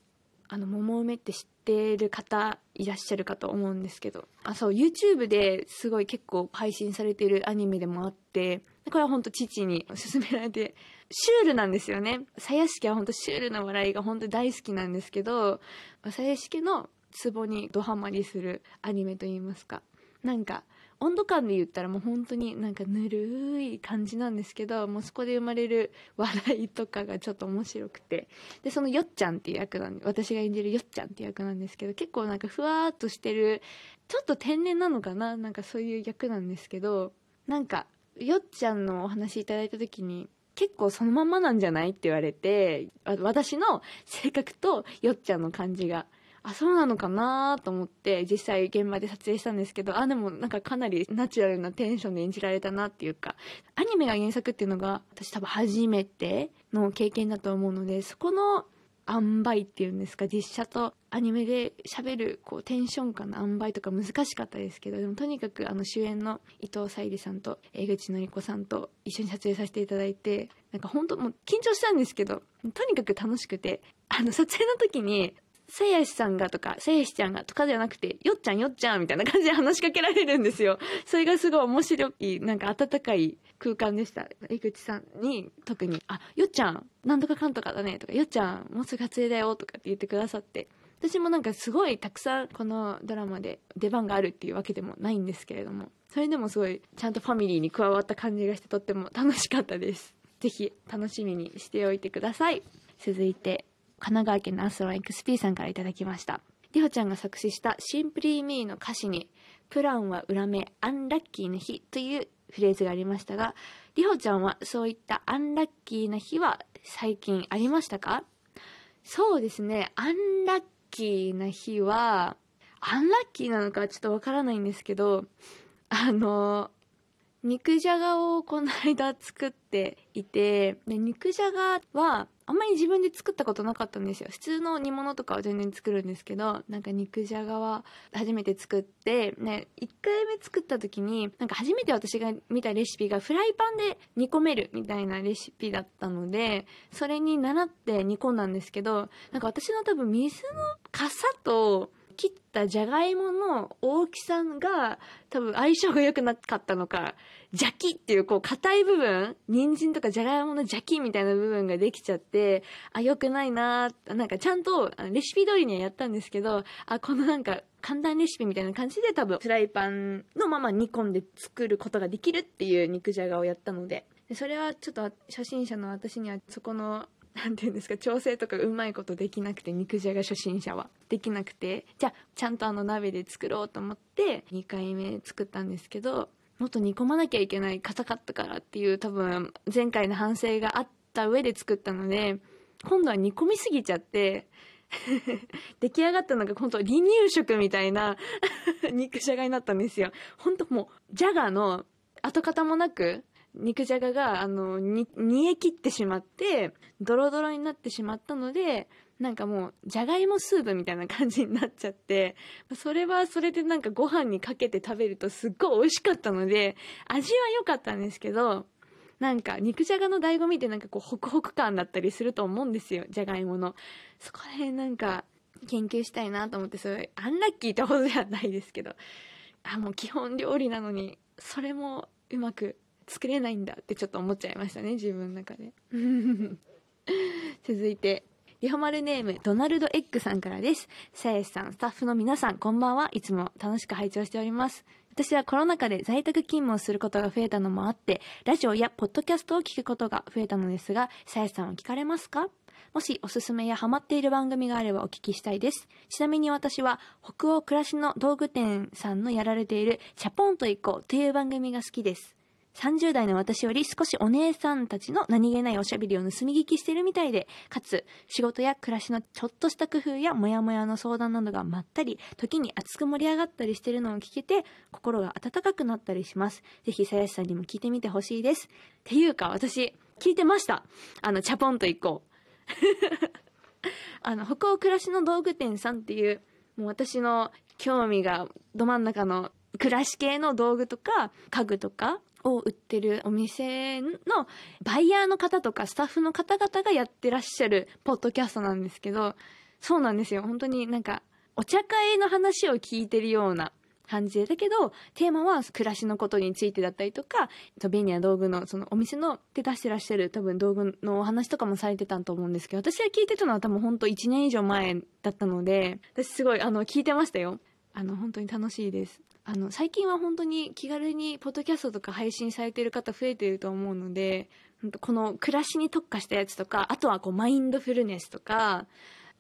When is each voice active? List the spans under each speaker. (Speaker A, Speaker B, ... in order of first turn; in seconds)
Speaker A: 0.5-118.3, 119.0-125.3, 125.9-126.7, 127.4-218.7, 219.2-229.0, 229.6-283.3, 284.2-328.9